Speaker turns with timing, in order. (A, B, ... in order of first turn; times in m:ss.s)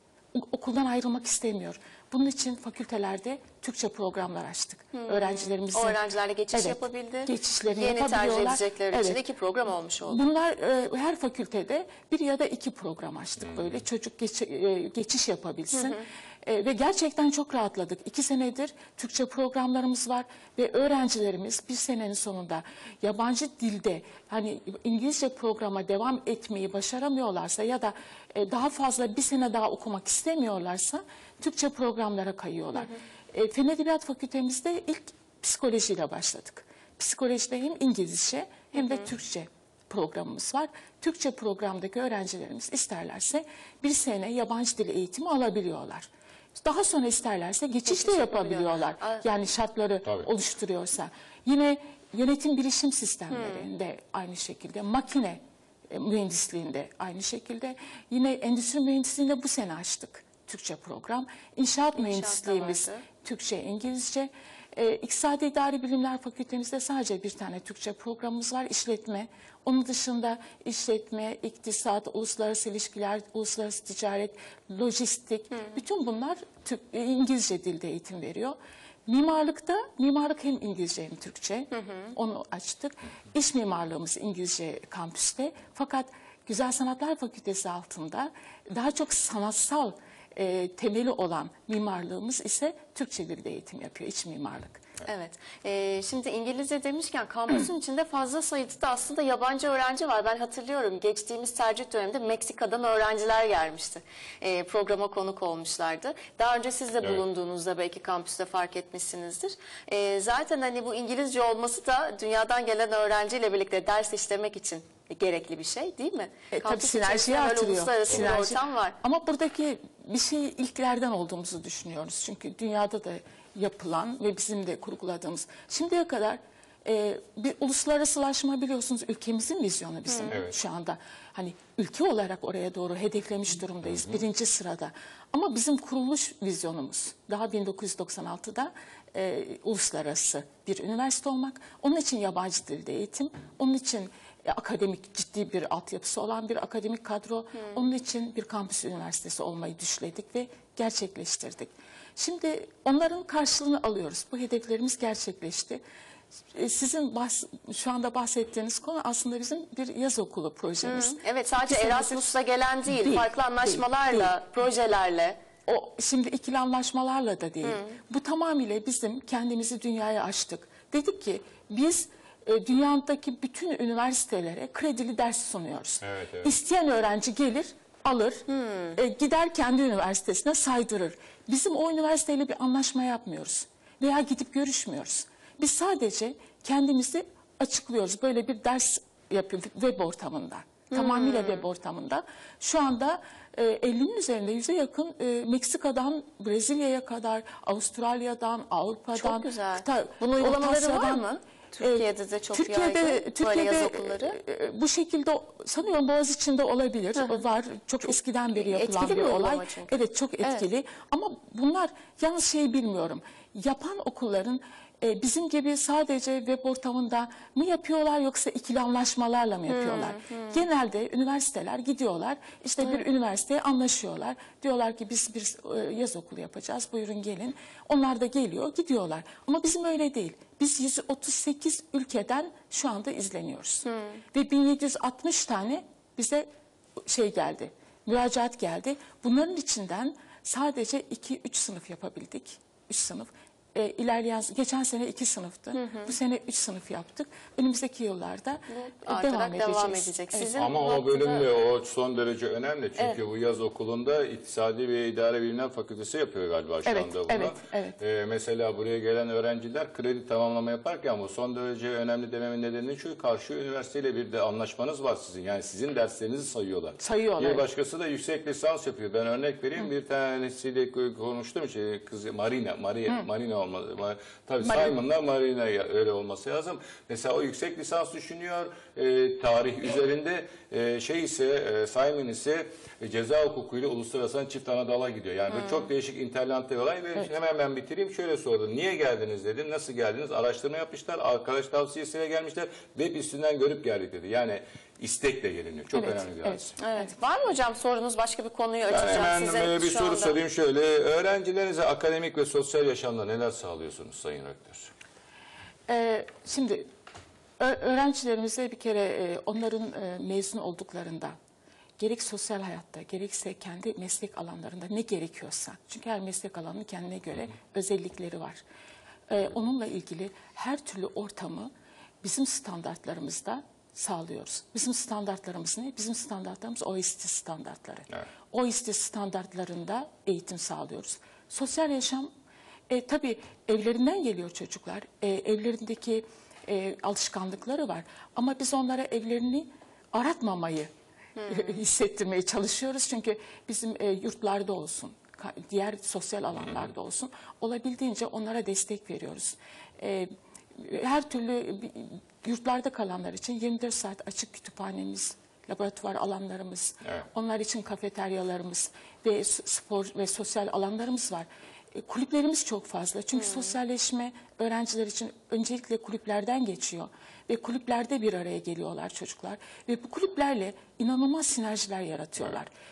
0:00.3-0:06.0 A
0:04.9-0:10.2 B
0:06.5-0:09.2 A
0:10.1-1:34.9 A
0:13.4-0:13.8 C
0:15.7-0:16.0 B
0:38.7-0:39.0 B
0:47.9-0:49.2 B
0:53.3-0:53.7 B
1:02.0-1:03.1 B
1:21.7-1:22.1 B
1:35.0-1:59.0 B
1:56.5-2:35.8 A
2:10.3-2:10.6 C
2:36.5-2:42.3 A
2:40.8-2:45.4 B
2:42.9-2:44.4 A
2:45.7-2:58.4 A
2:47.6-2:48.0 B
2:56.0-2:56.6 C
2:58.5-2:59.0 B
2:59.0-3:21.3 A
3:10.9-3:11.7 B
3:19.2-3:24.4 B
3:21.8-3:56.5 A
3:27.2-3:27.4 B
3:28.1-3:30.6 B
3:39.7-3:40.6 B
3:53.8-3:54.2 B
3:57.0-4:10.5 A
4:05.8-4:06.1 B
4:08.7-4:11.5 B
4:10.5-4:56.8 C
4:16.8-4:18.0 A
4:27.0-4:27.7 A
4:34.6-4:35.0 A
4:55.9-4:57.1 A
4:56.8-5:00.4 B
4:58.9-5:04.9 C
5:05.9-5:06.9 A
5:07.6-5:11.4 A
5:12.0-5:18.6 A
5:19.3-5:21.7 A
5:22.2-5:32.3 A
5:32.9-5:40.9 A
5:41.4-5:41.7 B
5:41.4-6:12.7 A
5:46.6-5:46.9 C